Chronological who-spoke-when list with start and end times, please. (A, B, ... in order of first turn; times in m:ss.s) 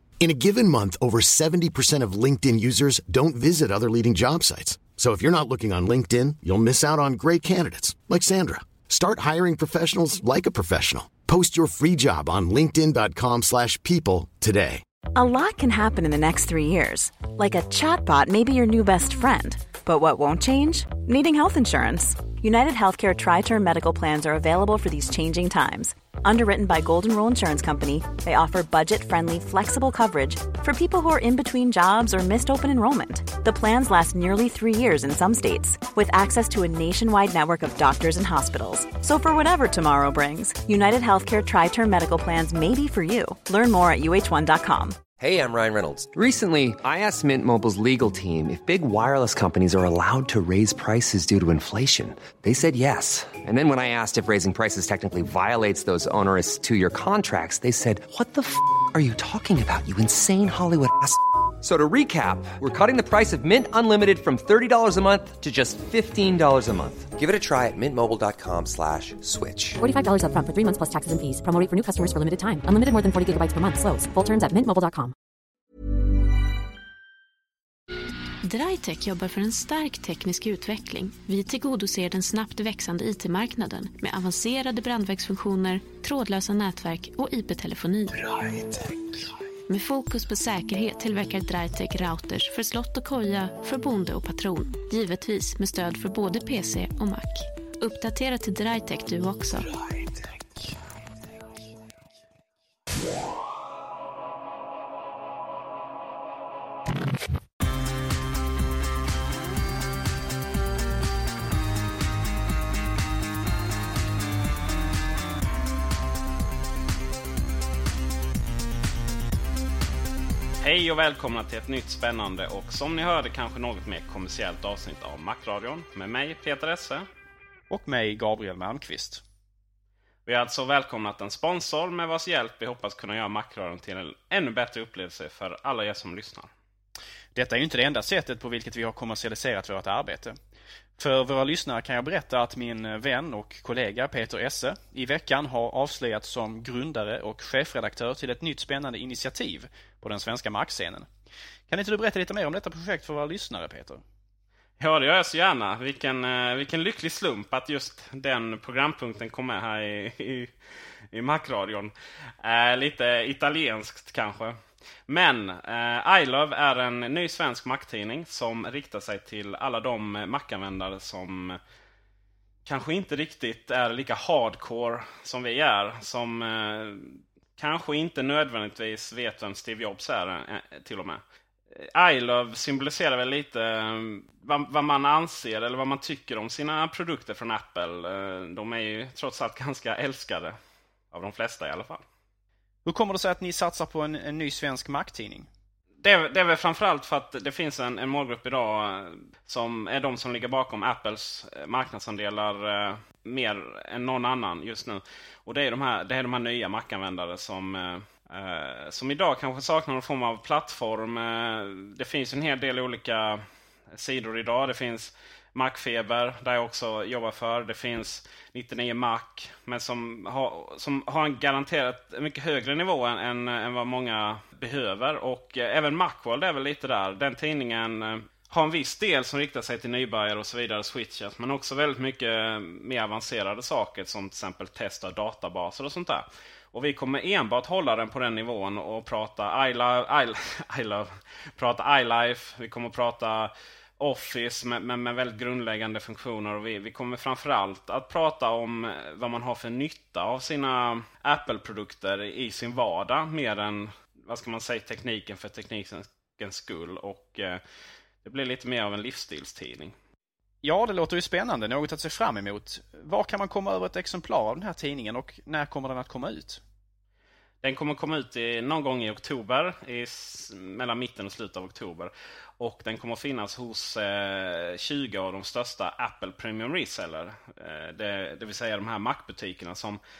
0:00.2-0:14.8 A
0:15.1-0:45.0 B
0:45.2-1:09.8 C
1:09.8-1:15.1 D
1:18.4-1:28.9 E
1:29.7-1:39.8 E
2:00.6-2:07.1 F
2:07.7-2:09.2 G
2:10.2-2:16.5 F
2:17.3-2:20.4 G
2:21.0-2:31.1 G
2:31.7-2:34.0 G
2:34.8-2:40.5 F
2:41.1-2:51.6 F
2:52.6-3:10.6 F
3:11.1-3:12.0 F
3:12.8-3:15.5 G
3:16.0-4:17.6 F
4:18.2-4:20.0 F
4:20.6-4:26.6 G
4:27.6-4:40.0 F